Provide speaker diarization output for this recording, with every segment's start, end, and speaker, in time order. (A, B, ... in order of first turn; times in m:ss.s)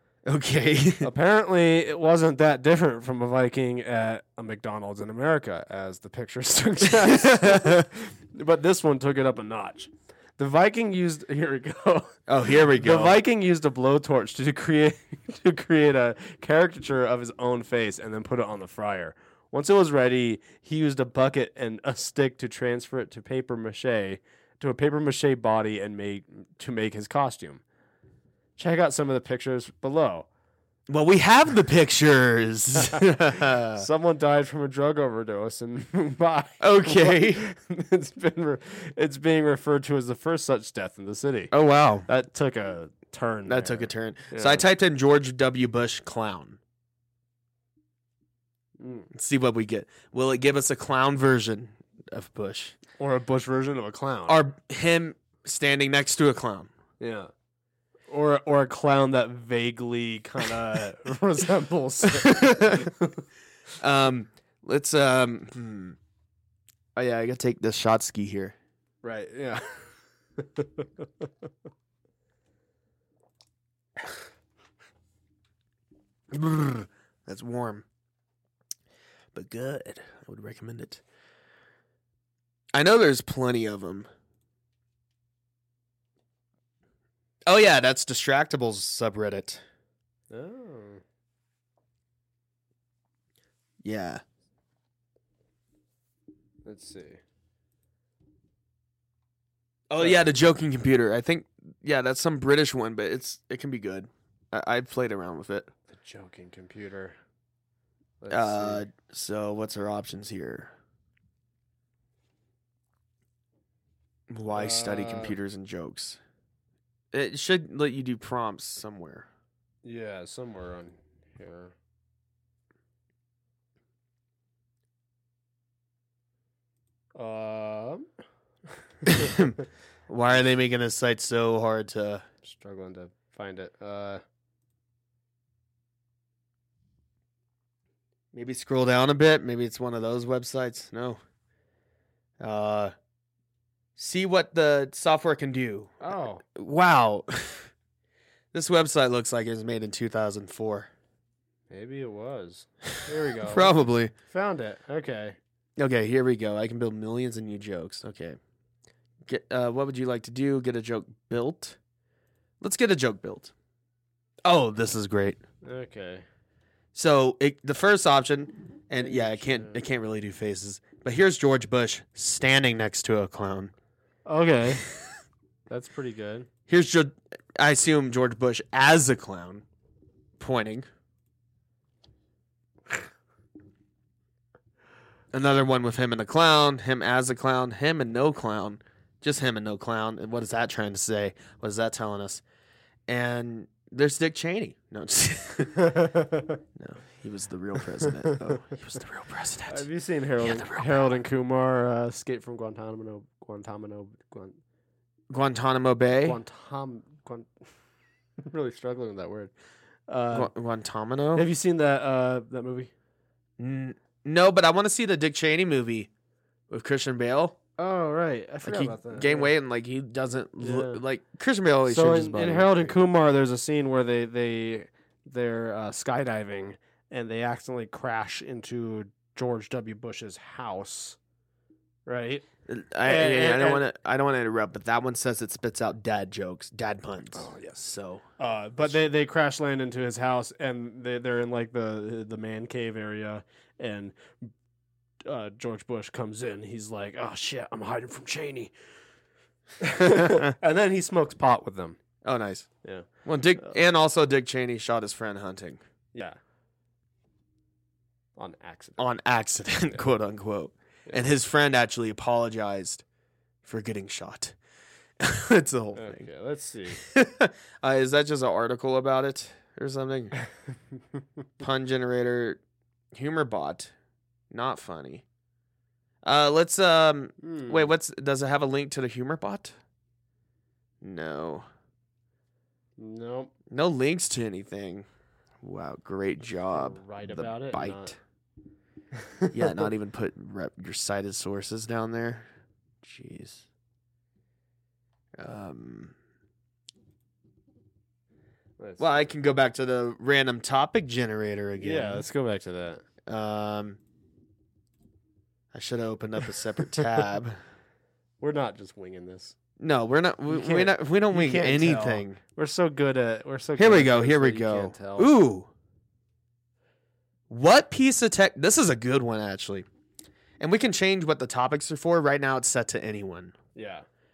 0:00.3-0:01.1 A
0:01.0-0:12.2 B
0:06.9-0:07.8 A
0:12.3-0:13.2 A
0:12.7-0:27.6 B
0:28.6-0:30.3 B
0:30.9-0:33.9 A
0:32.9-0:33.2 B
0:33.8-0:41.5 B
0:36.6-0:37.5 A
0:41.5-0:42.1 A
0:42.1-0:44.6 B
0:43.5-0:46.6 A
0:48.8-0:49.1 B
0:49.1-0:52.8 A
0:53.0-0:54.4 B
0:54.3-0:56.7 A
0:57.0-0:57.3 B
0:58.1-1:03.2 B
1:02.0-1:02.9 A
1:03.8-1:06.0 A
1:07.0-1:08.6 A
1:09.0-1:11.3 B
1:16.3-1:17.9 A
1:19.3-1:21.0 A
1:22.7-1:24.1 A
1:27.5-1:29.6 A
1:30.3-1:31.0 B
1:33.8-1:34.2 A
1:36.6-1:37.2 B
1:39.9-1:45.7 A
1:45.9-1:47.2 B
1:48.2-1:48.9 B
1:48.3-1:50.7 A
1:54.3-1:56.2 A
1:54.6-1:55.4 B
1:57.1-1:59.3 A
1:59.8-2:01.8 B
2:07.2-2:08.1 B
2:09.0-2:09.6 A
2:10.1-2:12.2 A
2:12.4-2:14.2 B
2:18.3-2:21.2 A
2:22.4-2:22.9 A
2:24.0-2:26.0 A
2:26.0-2:26.4 B
2:26.6-2:27.7 A
2:28.5-2:30.9 A
2:31.7-2:33.8 B
2:33.4-2:34.1 A
2:34.3-2:35.4 B
2:35.8-2:38.4 A
2:39.3-2:41.8 A
2:42.6-2:43.5 A
2:44.4-2:45.4 A
2:45.6-2:46.2 B
2:46.9-2:53.7 A
2:49.0-2:49.8 B
2:54.3-2:54.8 B
2:55.7-2:56.5 B
2:56.7-2:59.6 A
3:00.4-3:00.9 A
3:05.3-3:12.4 A
3:13.1-3:16.0 A
3:15.8-3:16.6 B
3:16.8-3:19.9 A
3:19.7-3:24.6 B
3:20.4-3:21.2 A
3:25.3-3:26.4 A
3:26.2-3:27.5 B
3:28.4-3:29.5 B
3:30.1-3:30.5 B
3:30.3-3:31.5 A
3:31.4-3:32.9 B
3:33.6-3:36.1 A
3:36.7-3:37.6 A
3:37.8-3:39.5 B
3:38.6-3:43.0 A
3:40.6-3:41.0 B
3:41.9-3:51.2 B
3:52.1-3:52.5 B
3:52.7-3:58.2 A
3:53.0-3:53.8 B
3:57.3-3:57.8 B
3:58.4-4:04.5 B
4:05.2-4:08.7 B
4:09.8-4:12.0 B
4:10.0-4:10.6 A
4:12.2-4:12.7 A
4:13.2-4:15.8 A
4:18.4-4:19.0 B
4:19.0-4:23.0 A
4:23.6-4:24.6 A
4:25.2-4:26.3 A
4:26.0-4:27.0 B
4:26.9-4:30.4 A
4:31.6-4:32.6 A
4:33.1-4:33.9 A
4:34.5-4:35.2 A
4:36.2-4:39.8 A
4:37.4-4:37.9 B
4:41.0-4:41.7 A
4:43.0-4:43.5 B
4:43.7-4:45.1 A
4:45.6-4:48.2 A
4:46.7-4:48.2 B
4:49.5-4:52.5 A
4:53.0-4:53.6 A
4:55.4-4:56.1 A
4:58.8-4:59.1 B
4:59.0-5:02.3 A
5:01.8-5:03.0 B
5:03.3-5:04.0 A
5:05.7-5:07.6 A
5:08.4-5:09.6 B
5:09.8-5:12.4 A
5:10.5-5:15.3 B
5:13.8-5:15.7 A
5:17.5-5:19.9 A
5:20.6-5:23.6 A
5:23.8-5:24.1 B